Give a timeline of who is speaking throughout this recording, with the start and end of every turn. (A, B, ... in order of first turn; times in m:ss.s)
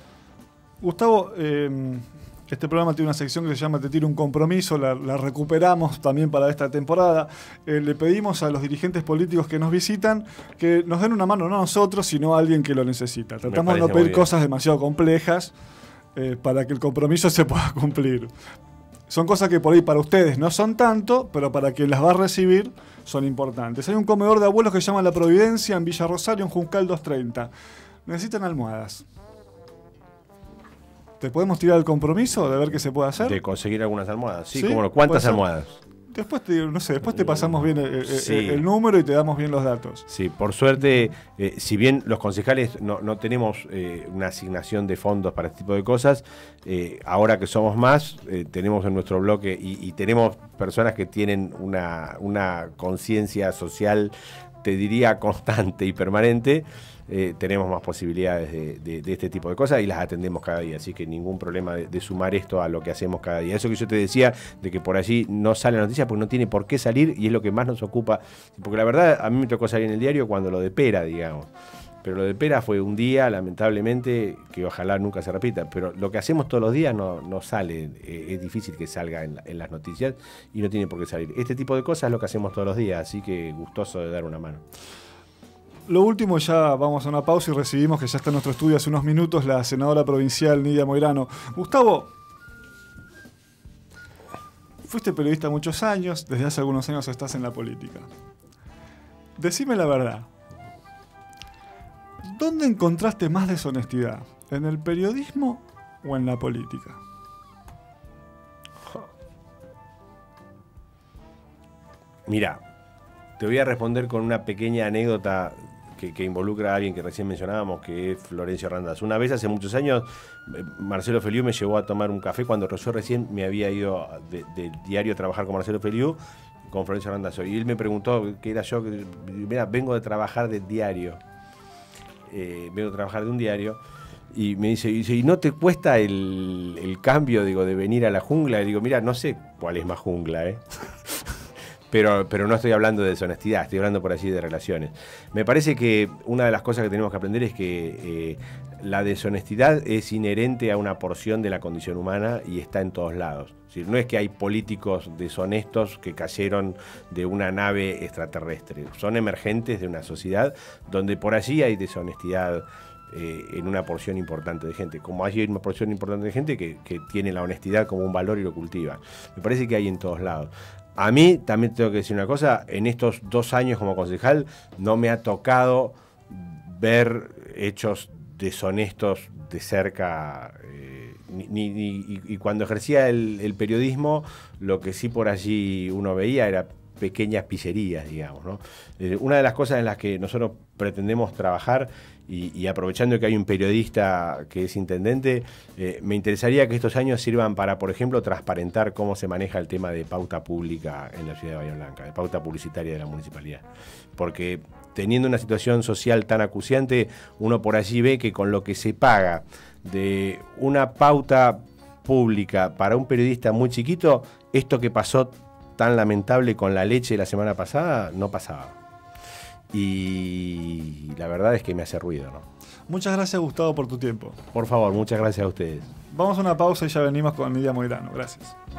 0:00.8-0:15.5 A
0:13.5-0:14.3 B
0:16.1-0:18.3 A
0:19.1-0:27.5 A
0:28.1-0:29.0 A
0:31.2-0:33.4 A
0:33.2-0:35.8 B
0:34.5-0:35.4 A
0:36.1-0:40.0 A
0:38.1-0:38.6 B
0:40.1-1:11.5 B
1:12.0-1:24.6 B
1:25.9-1:32.1 A
1:34.8-1:38.1 A
1:39.4-1:40.3 A
1:42.2-1:47.0 A
1:52.3-1:52.6 B
1:53.4-2:11.2 B
2:12.3-2:13.8 B
2:14.3-2:21.3 B
2:21.9-3:23.6 B
3:24.2-3:38.8 B
3:39.7-3:42.4 B
3:42.9-3:44.4 A
3:44.5-3:45.9 B
3:46.1-3:48.6 A